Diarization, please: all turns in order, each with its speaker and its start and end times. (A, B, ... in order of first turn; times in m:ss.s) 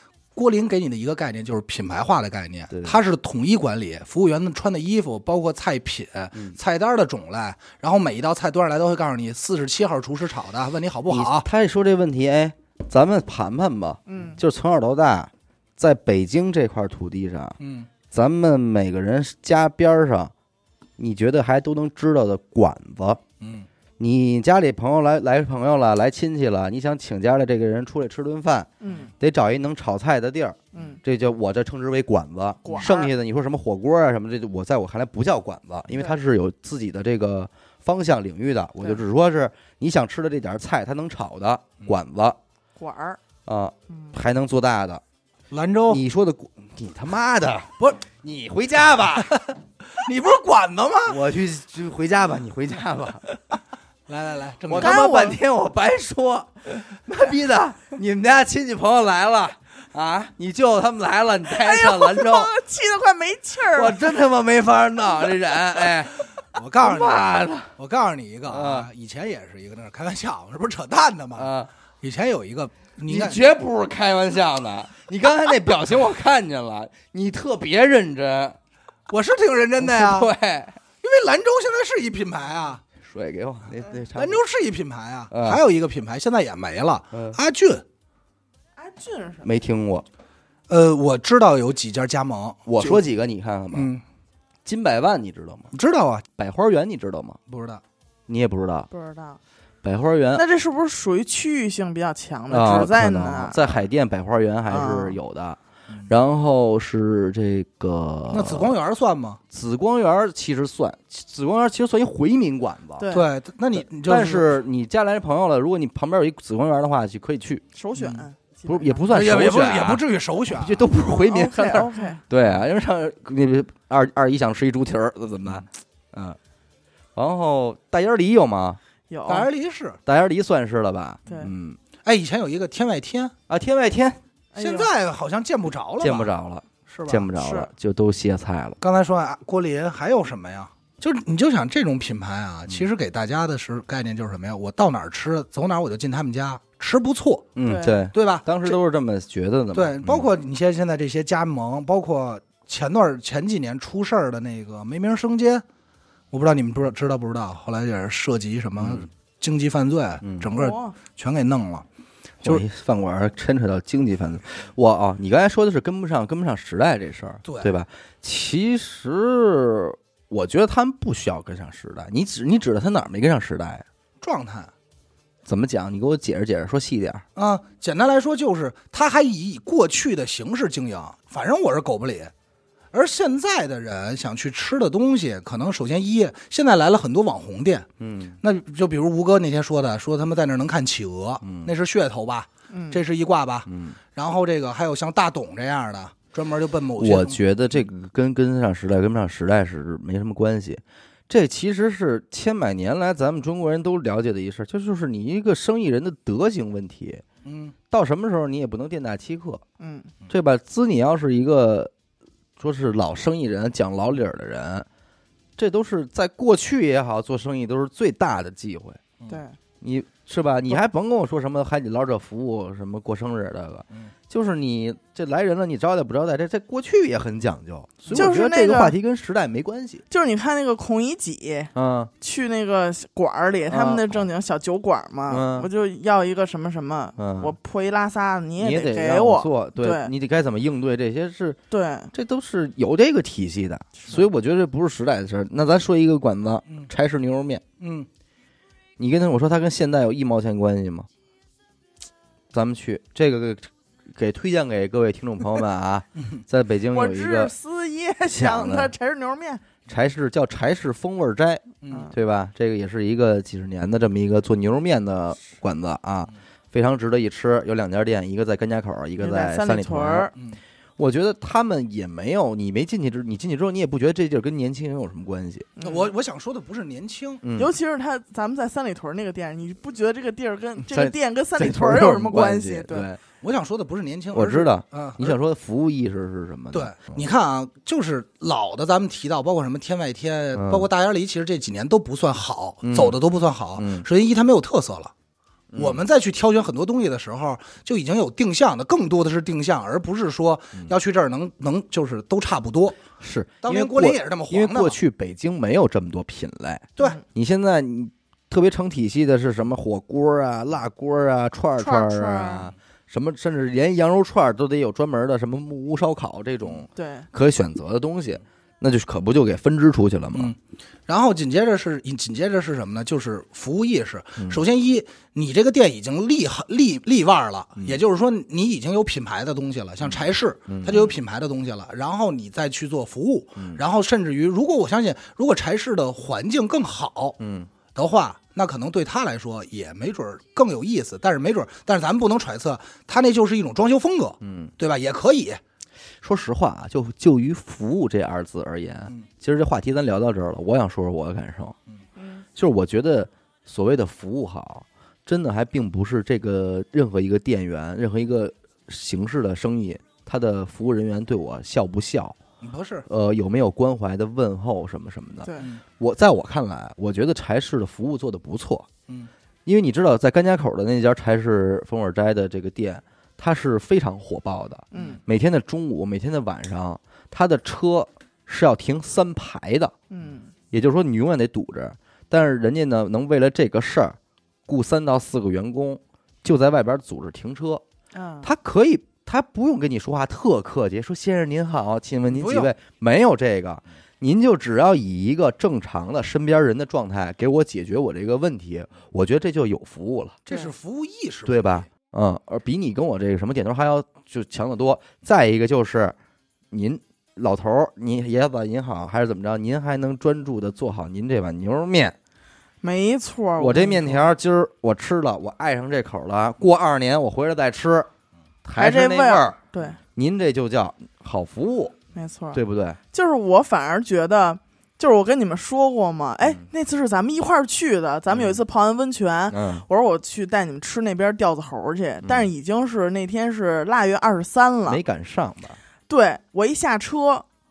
0:00.4-0:11.5 A
0:02.7-0:03.0 B
0:11.1-0:17.6 B
0:14.1-0:14.4 C
0:17.6-0:17.9 A
0:18.1-0:20.3 B
0:21.0-0:23.2 B
0:23.4-0:23.7 A
0:24.0-0:42.4 B
0:28.8-0:29.1 C
0:30.7-0:31.0 C
0:32.6-0:33.1 C
0:42.8-0:43.2 C
0:43.5-0:45.0 B
0:43.9-0:44.2 C
0:45.5-0:46.0 A
0:45.9-0:49.4 B
0:49.2-0:51.2 A
0:51.1-0:53.3 B
0:54.1-0:55.1 A
0:54.7-1:02.5 B
0:54.8-0:55.4 C
1:01.5-1:04.0 C
1:03.6-1:06.2 B
1:06.4-1:13.4 A
1:06.8-1:07.7 B
1:08.5-1:08.9 B
1:11.4-1:11.7 B
1:13.1-1:18.6 B
1:19.1-1:20.3 A
1:19.8-1:20.8 B
1:21.0-1:22.8 A
1:23.0-1:24.4 B
1:24.2-1:27.8 A
1:25.3-1:25.6 B
1:27.1-1:27.4 B
1:28.8-1:29.5 C
1:29.4-1:30.1 B
1:30.7-1:33.0 A
1:32.7-1:33.9 B
1:33.7-1:34.0 A
1:34.6-1:35.7 B
1:35.7-1:36.2 A
1:36.4-1:37.4 B
1:37.5-1:37.8 A
1:38.3-1:38.9 B
1:38.9-1:39.4 C
1:39.8-1:40.4 B
1:40.4-1:43.8 C
1:42.5-1:48.7 B
1:44.7-1:45.2 C
1:48.3-1:49.4 A
1:49.5-1:53.1 B
1:53.0-1:53.3 C
1:53.1-1:54.6 A
1:53.8-1:57.6 B
1:57.8-1:59.1 C
1:58.0-1:58.2 A
1:58.7-2:06.4 B
1:59.1-2:00.9 A
2:01.1-2:02.2 C
2:07.2-2:08.8 B
2:09.1-2:09.5 C
2:09.3-2:10.0 A
2:10.1-2:11.8 B
2:12.0-2:13.3 A
2:13.5-2:14.2 B
2:14.5-2:14.9 C
2:14.6-2:16.3 A
2:16.0-2:18.8 B
2:16.9-2:17.3 A
2:17.4-2:17.7 C
2:18.8-2:27.6 A
2:27.6-2:30.3 B
2:27.6-2:28.0 C
2:28.1-2:28.8 A
2:29.7-2:35.6 A
2:36.3-2:41.9 A
2:38.8-2:39.1 B
2:40.2-2:40.5 B
2:40.5-2:41.0 C
2:42.4-2:53.8 B
2:47.4-2:47.7 A
2:54.2-2:54.7 A
2:55.5-2:57.2 B
2:57.4-3:02.3 A
3:02.9-3:07.9 A
3:08.0-3:08.4 B
3:08.4-3:17.4 A
3:11.4-3:11.7 B
3:12.7-3:13.0 C
3:13.7-3:14.0 B
3:17.0-3:27.2 B
3:27.4-3:27.8 A
3:27.9-3:29.6 B
3:29.8-3:30.1 C
3:30.3-3:31.9 B
3:32.6-3:34.9 B
3:35.6-3:39.0 B
3:39.3-3:39.6 C
3:39.8-3:50.0 B
3:48.0-3:48.3 A
3:48.1-3:49.0 C
3:50.1-4:00.1 C
3:51.8-3:52.1 B
3:53.7-3:54.2 B
3:55.3-3:55.7 B
3:57.2-3:57.6 B
3:58.6-4:01.6 B
4:01.7-4:02.1 C
4:02.1-4:07.6 B
4:04.0-4:04.3 C
4:07.8-4:08.1 A
4:09.0-4:11.1 B
4:12.5-4:17.5 B
4:16.9-4:19.6 C
4:18.3-4:18.9 B
4:19.9-4:30.3 B
4:21.8-4:22.1 A
4:29.2-4:30.3 C
4:31.0-4:35.7 B
4:35.8-4:36.1 C
4:35.8-4:37.4 A
4:37.4-4:37.7 B
4:37.6-4:43.1 C
4:40.8-4:43.2 B
4:43.4-4:45.4 A
4:44.3-4:47.2 B
4:46.7-4:55.1 A
4:50.6-4:50.9 B
4:52.8-4:53.2 B
4:53.8-4:54.1 B
4:55.7-4:56.0 B
4:55.8-5:03.0 A
5:03.2-5:20.6 B
5:03.6-5:05.0 A
5:11.8-5:12.7 C
5:17.0-5:17.3 C
5:21.1-5:37.4 A
5:30.7-5:31.0 B
5:37.4-5:37.7 B
5:38.0-5:45.6 A
5:44.4-5:44.7 B
5:46.2-5:51.8 B
5:52.2-5:52.4 C
5:52.6-6:02.4 B
6:02.6-6:03.1 A
6:03.1-6:08.9 B
6:05.4-6:05.7 C
6:09.7-6:20.0 B
6:14.9-6:15.2 C
6:20.1-6:20.5 C
6:20.7-6:27.8 B
6:28.1-6:28.5 C
6:28.4-6:40.4 B
6:32.3-6:32.7 A
6:40.5-6:41.9 A
6:41.5-6:46.2 B
6:46.7-6:52.2 B
6:52.8-6:54.3 C
6:53.6-6:58.1 B
6:58.6-6:59.6 B
6:58.8-7:00.0 C
7:00.2-7:02.0 B
7:02.2-7:02.6 C
7:02.5-7:03.0 B
7:03.1-7:15.0 C
7:08.3-7:08.6 B
7:09.5-7:09.9 B
7:12.2-7:12.5 B
7:14.9-7:15.8 B
7:16.1-7:17.5 C